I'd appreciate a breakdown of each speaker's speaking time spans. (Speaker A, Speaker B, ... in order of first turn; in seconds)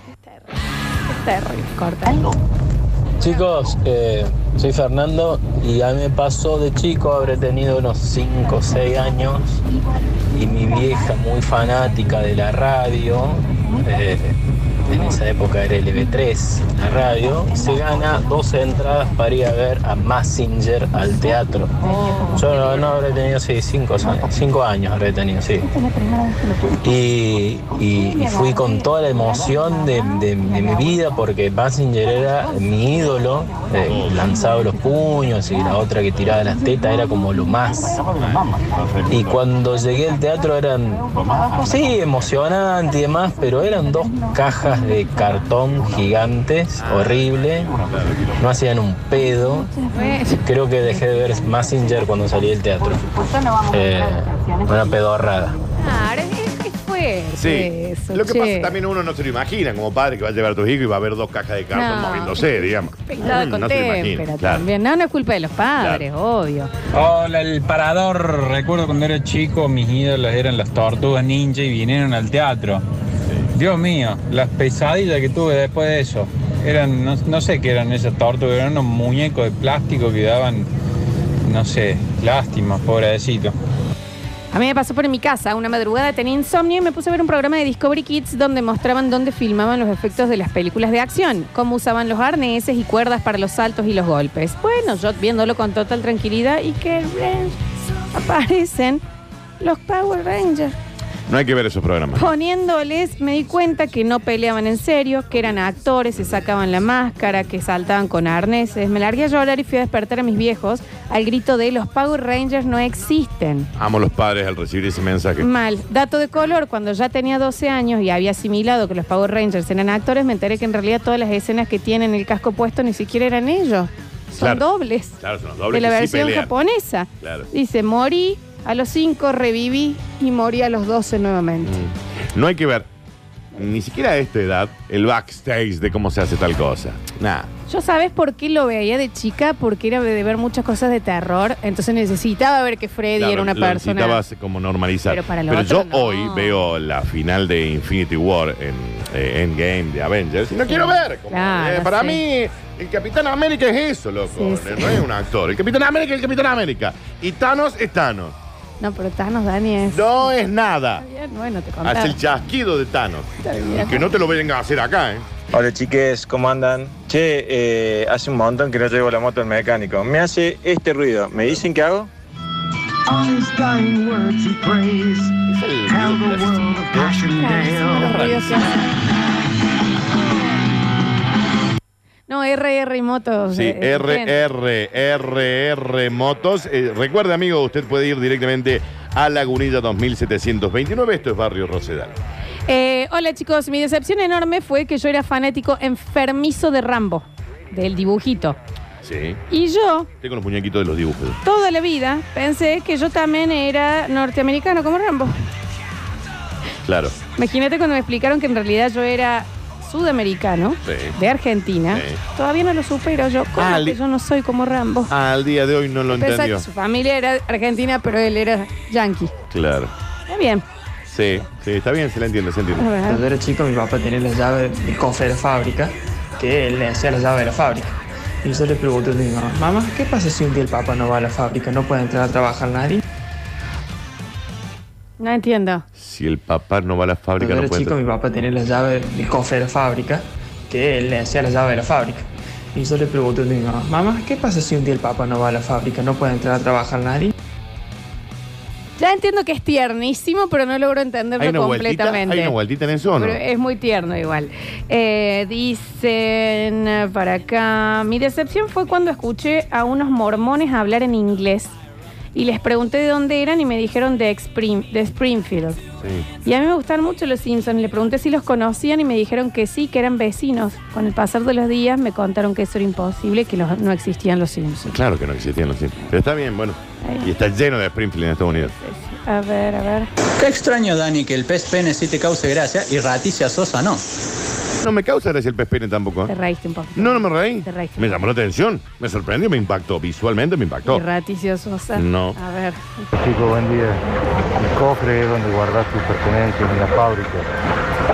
Speaker A: 0.3-0.5, 1.1-2.3, 49.9-50.4, 55.8-58.7, 61.7-66.7, 84.5-97.6, 98.1-99.0, 99.6-100.7, 102.1-113.7, 115.4-125.2, 125.7-131.8, 137.7-144.2, 145.1-146.6, 150.7-152.2, 154.3-155.0, 158.8-160.3, 161.0-162.2, 163.4-164.0, 177.2-178.8, 182.3-184.4, 192.7-198.6, 199.5-200.1, 201.4-205.3, 207.4-215.1, 216.1-219.3, 220.3-220.6, 222.8-223.2, 235.2-235.8, 249.0-252.6, 253.2-261.7, 262.3-265.8, 266.4-274.9, 277.0-277.3, 278.6-280.1, 286.3-288.2, 290.9-293.1
Speaker B: 3.2-9.6, 10.3-14.4, 14.9-21.7, 22.2-25.7, 26.8-38.1, 39.1-47.7, 48.4-49.8, 50.4-55.6
Speaker C: 33.8-34.3, 38.2-39.4, 46.8-48.4, 57.4-64.7, 65.8-66.0, 101.3-102.3, 113.8-115.5, 124.4-124.7, 125.2-126.5, 127.2-127.5, 131.6-132.9, 133.6-137.5, 143.2-158.4, 159.9-161.1, 161.8-165.3, 175.5-178.7, 183.5-192.1, 199.0-199.4, 200.2-201.4, 206.8-207.2, 210.8-211.2, 211.9-212.2, 213.6-214.0, 215.1-216.6, 219.5-219.9, 221.1-222.9, 235.9-237.9, 251.4-253.4, 266.0-266.3, 274.9-278.7, 284.8-286.3, 286.9-291.1, 291.9-292.4
Speaker D: 66.9-72.8, 73.5-80.7, 81.5-83.5
Speaker E: 165.6-172.1, 173.4-175.2, 175.9-177.0
Speaker F: 223.1-227.9, 228.4-233.0, 237.4-247.3
Speaker G: 280.4-284.0
Speaker H: 293.1-294.0, 294.6-297.5